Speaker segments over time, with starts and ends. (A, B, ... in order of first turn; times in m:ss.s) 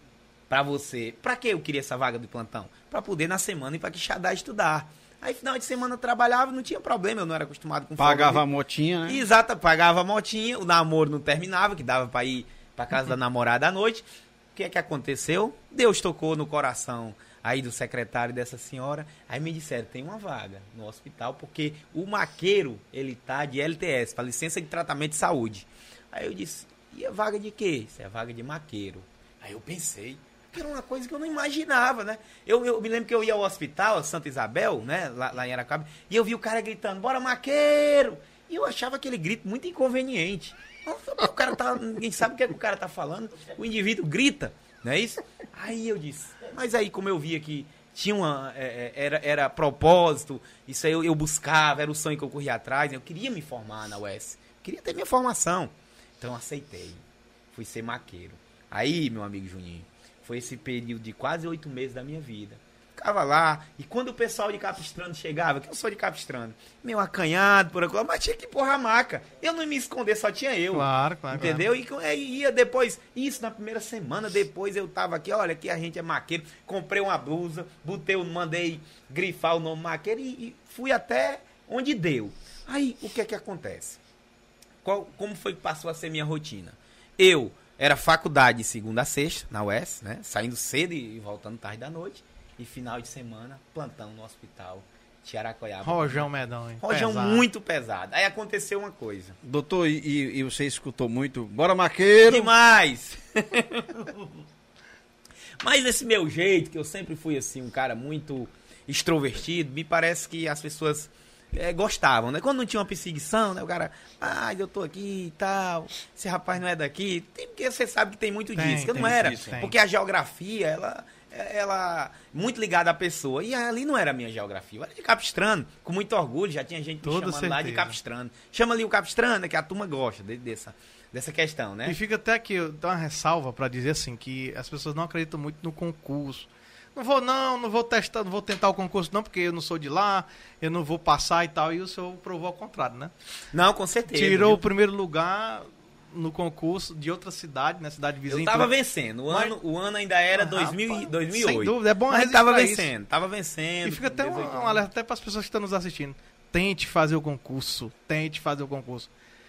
0:00.5-0:08.4 A
0:08.0-0:09.2 B
0:09.1-0:57.0 A
0:57.5-1:24.0 A
1:10.7-1:11.7 C
1:24.8-1:36.3 A
1:35.8-1:37.4 C
1:36.8-1:39.4 A
1:39.4-1:42.5 B
1:42.2-1:44.3 A
1:45.6-2:12.0 A
1:58.6-1:59.8 C
1:59.0-1:59.6 B
2:07.0-2:08.0 C
2:11.8-2:23.1 C
2:23.5-2:24.7 A
2:24.1-2:28.7 C
2:28.3-2:34.8 A
2:29.3-2:29.6 C
2:30.4-2:32.9 C
2:33.8-2:39.1 C